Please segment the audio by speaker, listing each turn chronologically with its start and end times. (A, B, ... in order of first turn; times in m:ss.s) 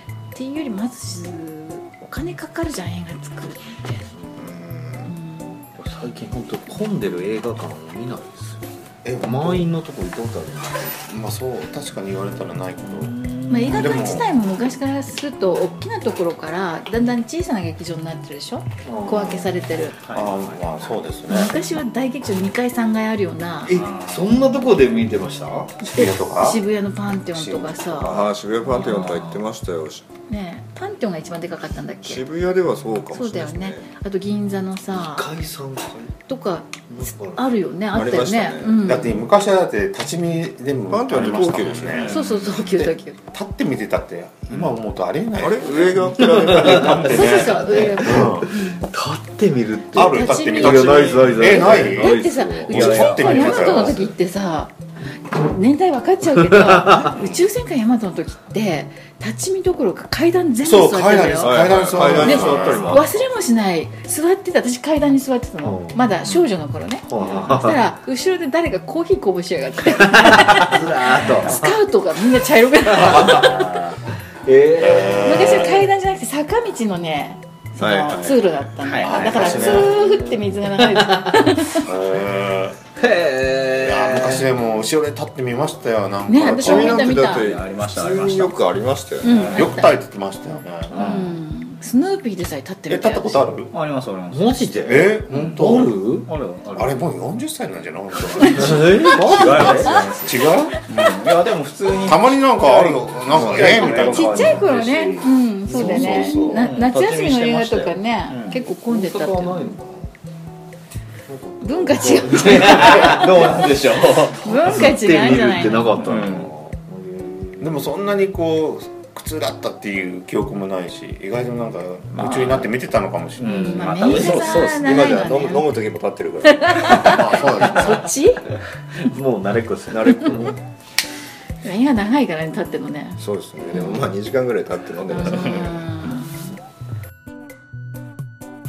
0:00.4-0:04.1 A
0:04.4-0:05.1 B
0:05.1-0:05.6 A
0:05.8-0:11.1 C
0:09.0-0:09.7 D
0:11.1-0:14.3 D
0:13.5-0:20.0 A
0:18.8-0:19.5 C
0:20.0-0:20.6 E
0:20.1-0:21.6 D
0:21.3-0:23.8 A
0:23.7-0:25.8 C
0:23.7-0:24.3 E
0:25.8-0:28.2 A
0:25.8-0:26.6 D
0:27.3-0:28.3 D
0:28.0-0:30.0 B
0:28.7-0:29.2 C
0:28.8-0:29.4 E
0:30.3-0:32.2 A
0:32.0-0:33.9 B
0:33.1-0:35.3 A
0:34.9-0:36.1 C
0:36.3-0:39.2 A
0:36.9-0:37.5 C
0:37.9-0:39.0 B
0:38.8-0:48.5 D
0:40.9-0:42.2 B
0:42.0-0:42.4 E
0:42.1-0:43.2 A
0:45.4-0:47.4 B
0:46.2-0:54.1 C
0:47.0-0:48.8 A
0:49.9-0:54.1 D
0:50.0-1:13.7 A
0:56.5-0:57.1 C
0:57.1-0:57.4 D
1:00.6-1:03.1 D
1:01.4-1:03.2 B
1:05.6-1:06.2 C
1:07.1-1:07.9 C
1:07.2-1:07.6 E
1:10.0-1:11.7 C
1:13.0-1:13.6 D
1:13.1-1:15.7 C
1:13.3-1:14.0 E
1:14.7-1:15.9 D
1:15.2-1:21.9 A
1:17.8-1:18.5 B
1:18.8-1:19.9 E
1:19.0-1:20.0 D
1:19.6-1:20.9 C
1:21.8-1:22.8 D
1:23.0-1:24.3 E
1:23.8-1:27.1 D
1:24.1-1:24.5 C
1:26.3-1:27.6 A
1:26.4-1:29.4 B
1:27.1-1:28.6 E
1:29.2-1:30.0 A
1:29.2-1:31.3 D
1:30.9-1:33.5 A
1:31.0-1:31.2 C
1:31.0-1:31.3 E
1:32.9-1:33.7 D
1:33.7-1:37.0 E
1:34.3-1:36.3 C
1:34.9-1:36.0 D
1:36.7-1:41.0 D
1:38.3-1:45.0 E
1:38.5-1:40.1 C
1:39.0-1:40.1 A
1:42.0-1:44.6 D
1:42.7-1:47.9 C
1:43.7-1:49.7 A
1:45.7-1:46.7 D
1:46.6-1:48.6 E
1:48.5-1:50.1 C
1:51.3-1:57.9 C
1:51.6-1:53.5 A
1:52.5-1:54.4 E
1:54.4-1:56.1 A
1:56.0-1:56.5 E
1:57.6-2:04.1 D
2:03.4-2:05.0 E
2:03.5-2:04.5 C
2:03.5-2:05.8 A
2:04.6-2:07.2 B
2:06.5-2:08.5 A
2:07.0-2:08.1 D
2:08.9-2:10.6 C
2:09.9-2:10.6 B
2:11.6-2:14.1 A
2:13.2-2:15.9 B
2:15.1-2:16.5 A